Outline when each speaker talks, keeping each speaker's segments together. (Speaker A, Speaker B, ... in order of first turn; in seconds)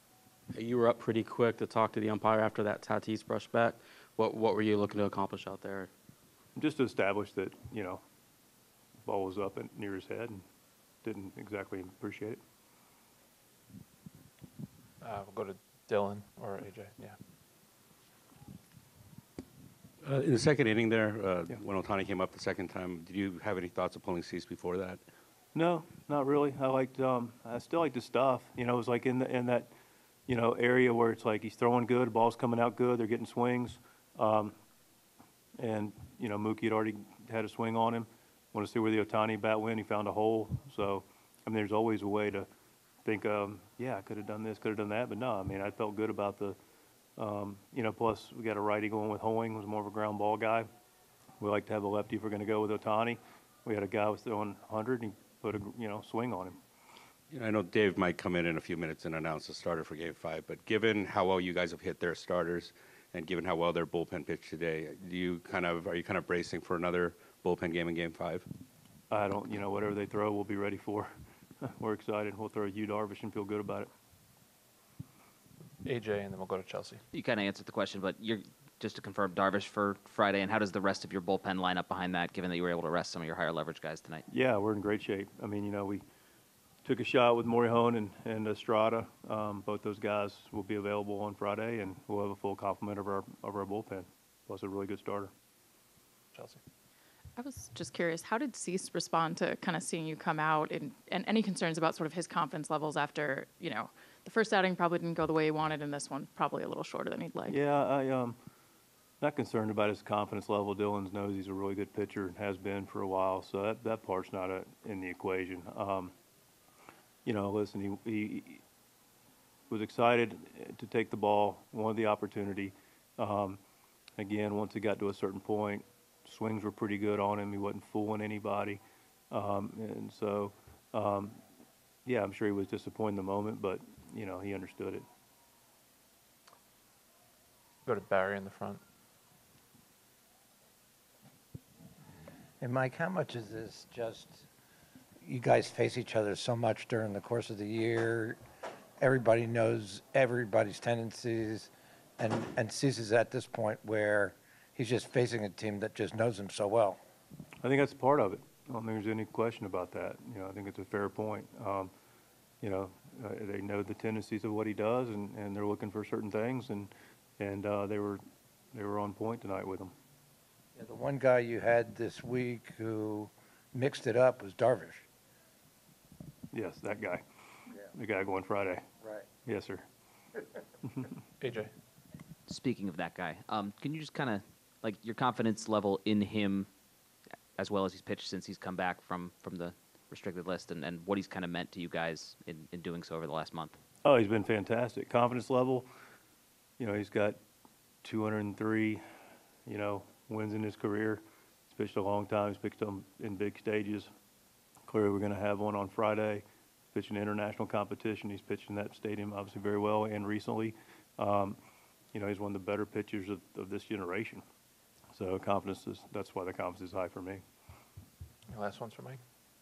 Speaker A: 0.5-5.9
Speaker B: 6.5-8.0, 9.0-10.4, 11.0-12.4, 25.5-29.7, 30.3-34.5, 35.6-42.5, 43.0-46.6, 47.2-50.6, 51.4-56.6, 69.1-71.1, 71.6-73.9, 84.3-86.0, 86.8-95.3, 107.5-108.3, 109.2-116.1, 117.2-118.6, 119.7-123.6, 124.2-131.4, 132.1-135.0, 157.6-161.9, 162.6-168.2, 168.7-169.9, 176.5-177.2, 177.9-178.8, 179.4-179.8, 180.9-181.1, 194.0-195.9, 196.8-197.4, 198.0-199.0, 199.7-204.1, 204.9-211.6, 212.1-214.4, 215.1-217.4
Speaker C: 15.0-17.1, 75.8-77.0, 96.3-96.6, 137.8-138.8, 181.4-181.7, 218.5-219.2
Speaker D: 20.0-25.0, 57.3-68.5
Speaker E: 77.1-84.2, 182.5-186.7, 187.6-193.8
Speaker F: 97.4-107.6
Speaker G: 142.6-144.4, 145.2-148.4, 149.0-157.0, 170.7-175.1